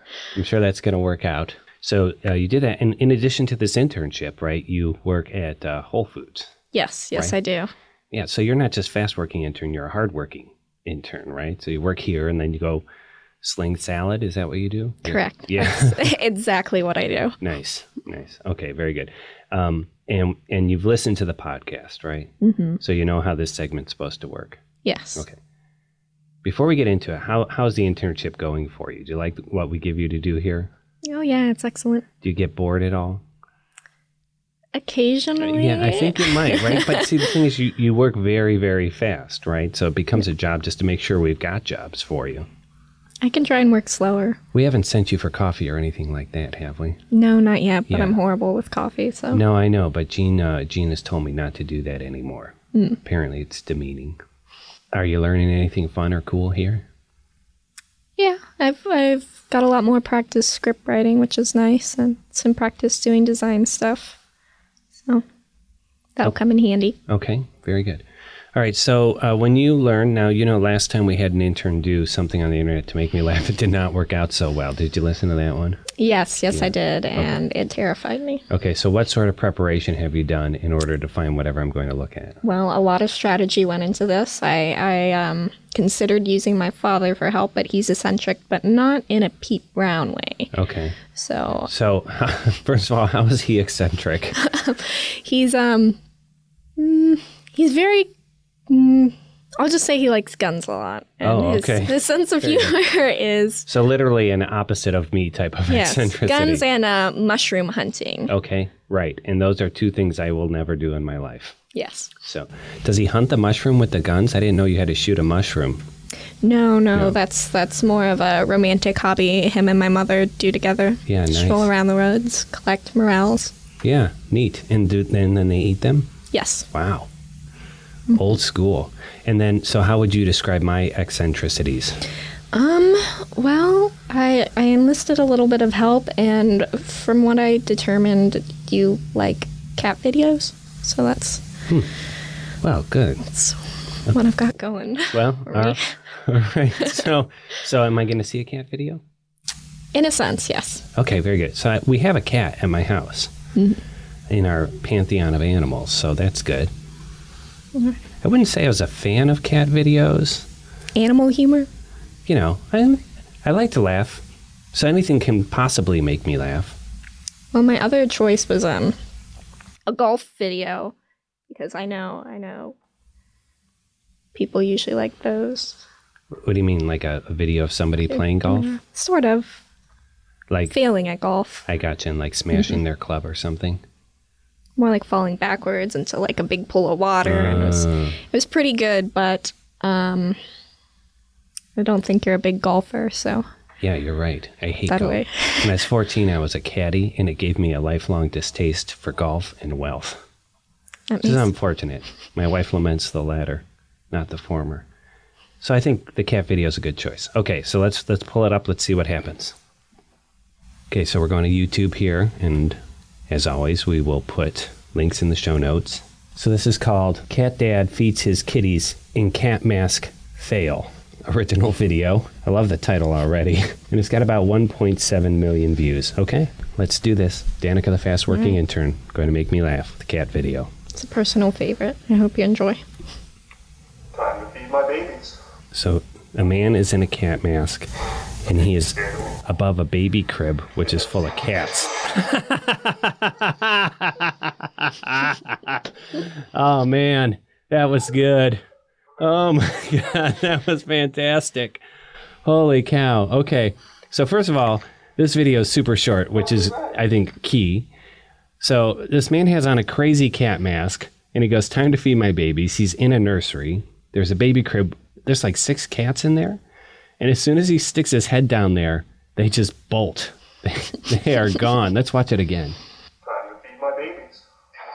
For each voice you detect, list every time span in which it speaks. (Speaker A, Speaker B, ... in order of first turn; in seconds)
Speaker A: 0.3-6.5, 8.1-12.8, 13.4-16.1, 17.4-24.6, 26.4-30.7, 32.2-33.2, 35.4-42.5, 44.5-47.0, 47.9-48.2, 49.3-54.2, 54.9-56.8, 67.1-75.8, 76.5-77.4, 78.5-82.4, 90.5-91.0, 91.7-94.3, 101.2-102.8, 103.7-106.6, 108.3-111.6, 112.2-115.8, 121.0-121.7, 123.8-126.1, 126.7-127.1, 128.1-132.0, 142.6-143.3, 145.1-149.0, 150.9-153.3, 154.3-156.7, 158.2-160.5, 162.2-166.8, 176.3-178.8, 180.5-180.8, 181.7-183.8, 187.2-188.2, 193.8-200.2, 201.2-204.9, 205.6-209.6, 210.9-230.7, 235.7-237.9, 238.4-248.6, 249.2-251.8, 252.4-257.9, 258.6-266.6, 267.2-272.8
Speaker B: 6.7-7.7, 15.0-17.4, 22.4-22.8, 24.8-25.3, 31.0-32.1, 34.7-37.3, 43.2-44.4, 47.1-49.4, 52.7-53.0, 58.2-64.2, 64.9-65.2, 66.2-67.0, 76.0-78.4, 82.4-90.5, 91.1-91.7, 94.3-96.0, 96.8-98.1, 98.7-103.7, 105.7-108.3, 111.7-112.1, 116.4-123.5, 126.3-126.7, 132.5-141.4, 143.3-145.9, 149.9-150.9, 153.5-153.8, 160.9-161.7, 167.5-168.9, 169.9-170.9, 171.5-172.8, 174.3-175.8, 178.1-179.6, 180.7-181.7, 182.5-182.8, 184.8-190.4, 191.8-193.4, 194.9-195.8, 201.1-201.5, 228.3-228.6, 230.9-232.8
Speaker C: 234.1-235.3, 273.2-274.4